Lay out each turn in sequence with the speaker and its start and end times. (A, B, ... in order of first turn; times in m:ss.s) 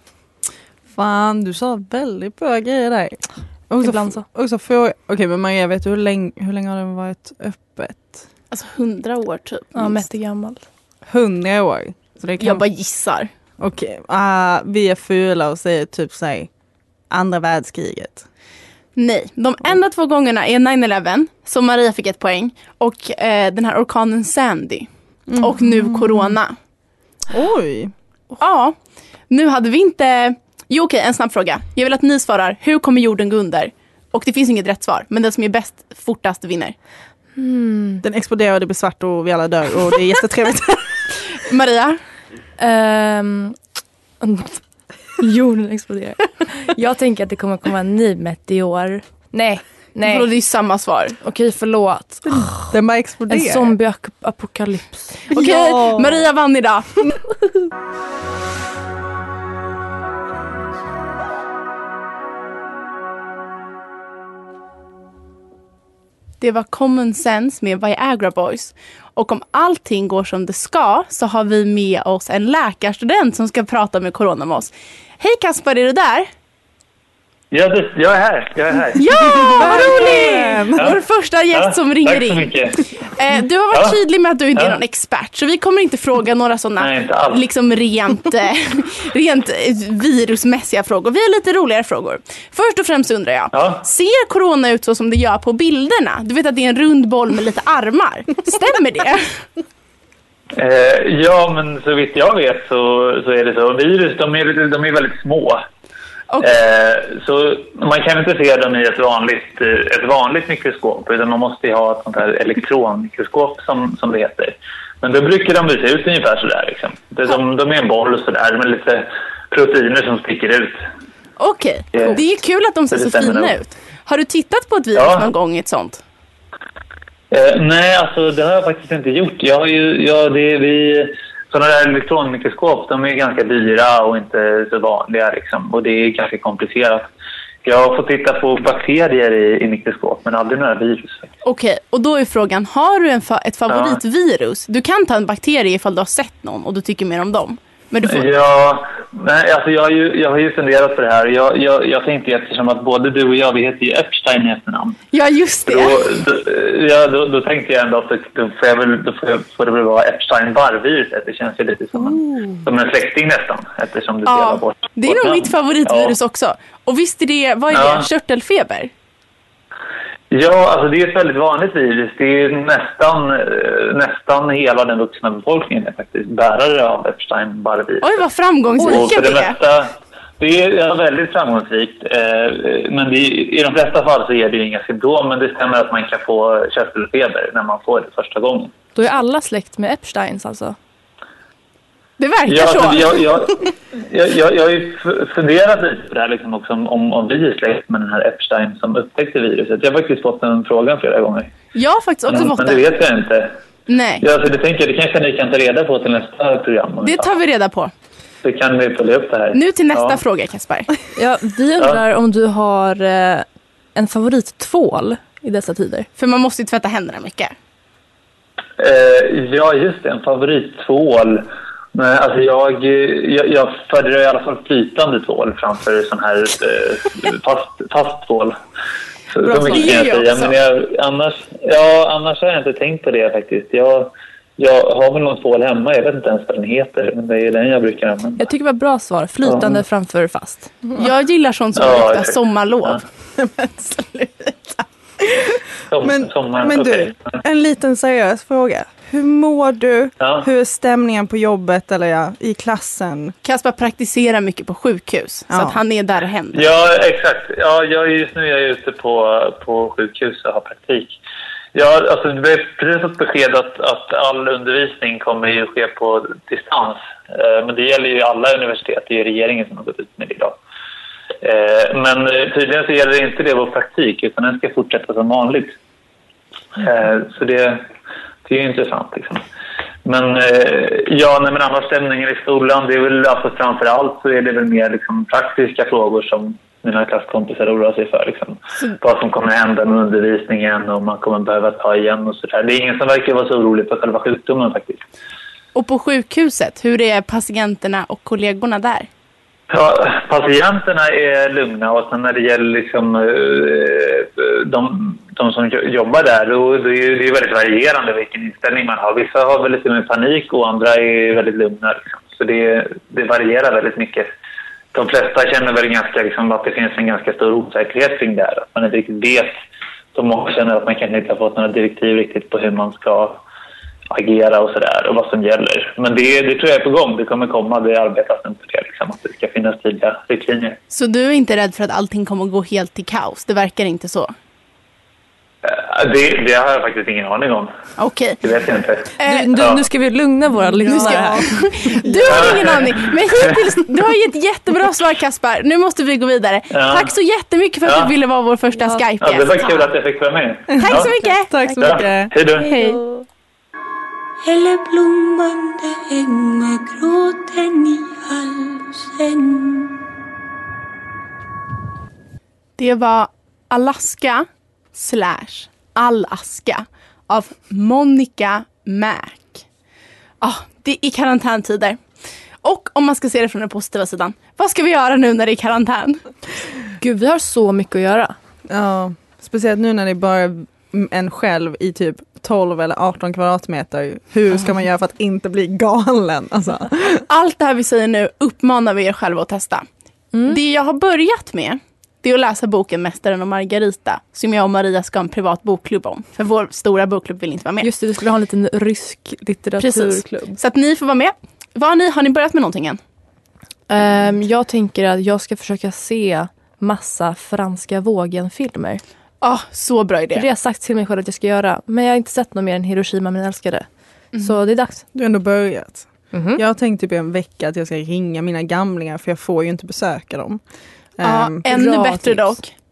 0:00.9-0:08.2 A
0:03.8-0:04.2 B
0:08.5-0:10.0 C
0:09.8-0:10.6 B
0:11.0-0:12.6 A
0:12.4-0:13.3 C
0:13.6-0:16.5 A
0:17.1-0:18.2 A
0:19.0-0:26.6 C
0:25.3-0:26.3 A
0:27.3-0:27.9 A
0:28.4-0:28.8 C
0:29.3-0:36.8 C
0:37.4-0:38.0 B
0:38.0-0:40.9 A
0:41.4-0:42.0 C
0:42.6-0:43.6 B
0:44.2-0:44.6 B
0:45.2-0:50.3 B
0:50.0-0:51.2 C
0:51.2-0:52.7 B
0:52.3-0:53.8 A
0:53.3-0:55.3 B
0:55.3-0:57.0 C
0:55.3-0:56.2 A
1:06.4-1:16.3 C
1:17.5-1:20.1 D
1:18.9-1:39.3 C
1:19.4-1:21.0 A
1:21.5-1:22.8 D
1:23.7-1:24.0 D
1:26.8-1:27.4 D
1:33.5-1:33.8 D
1:40.5-1:45.6 D
1:46.3-1:46.5 C
1:46.4-2:00.8 D
2:01.4-2:06.0 C
2:01.9-2:02.2 D
2:02.9-2:03.6 D
2:04.9-2:05.3 D
2:07.3-2:17.1 D
2:17.6-2:21.3 D
2:21.4-2:28.3 C
2:23.7-2:24.0 D
2:28.0-2:35.0 D
2:35.1-2:36.0 C
2:35.7-2:46.2 D
2:44.3-2:48.9 C
2:47.7-2:48.1 D
2:50.3-2:58.2 D
2:58.0-2:59.6 C
2:58.8-3:08.7 D
3:08.9-3:10.8 B
3:12.2-3:13.4 C
3:12.5-3:21.5 D
3:21.8-3:22.9 C
3:22.3-3:23.5 D
3:23.9-3:24.2 C
3:24.2-3:27.3 D
3:27.0-3:27.9 C
3:28.4-3:30.2 D
3:29.5-3:30.9 C
3:31.2-3:36.1 B
3:36.2-3:37.5 C
3:38.8-3:48.6 D
3:49.3-3:58.4 D
3:49.4-3:50.5 C
3:58.4-4:00.7 B
4:00.9-4:03.0 C
4:01.8-4:03.0 D
4:03.4-4:13.4 A
4:05.9-4:07.4 D
4:13.4-4:16.7 C
4:15.5-4:15.8 A
4:16.5-4:21.2 D
4:21.7-4:30.6 D
4:31.4-4:35.8 D
4:36.8-4:37.8 D
4:38.5-4:39.4 D
4:40.0-4:55.0 D
4:55.8-4:59.1 C
4:59.7-5:14.3 D
5:14.9-5:19.6 D
5:20.1-5:23.4 D
5:24.1-5:30.8 D
5:30.9-5:34.3 C
5:35.6-5:37.7 D
5:38.0-5:38.4 C
5:38.4-5:39.8 D
5:39.2-5:39.6 C
5:39.2-5:41.7 B
5:40.8-5:42.8 A
5:40.8-5:49.9 C
5:42.2-5:43.6 D
5:46.7-5:47.1 D
5:47.8-5:48.1 D
5:49.2-5:51.1 D
5:50.7-5:52.3 A
5:50.8-5:51.5 C
5:51.8-5:52.7 D
5:52.6-5:53.0 C
5:52.6-5:53.2 B
5:54.4-6:00.0 E
6:02.8-6:09.6 C
6:10.4-6:12.0 C
6:12.6-6:16.2 C
6:17.0-6:18.3 B
6:18.7-6:27.2 A
6:27.2-6:29.8 C
6:30.3-6:30.6 B
6:30.5-6:37.9 C
6:37.8-6:40.6 B
6:39.8-6:43.0 C
6:43.9-6:49.0 B
6:49.4-6:50.4 C
6:50.3-6:53.8 B
6:54.4-6:55.0 B
6:55.1-7:00.6 A
6:56.3-6:56.6 B
7:01.2-7:01.7 A
7:01.2-7:02.7 C
7:01.7-7:02.6 B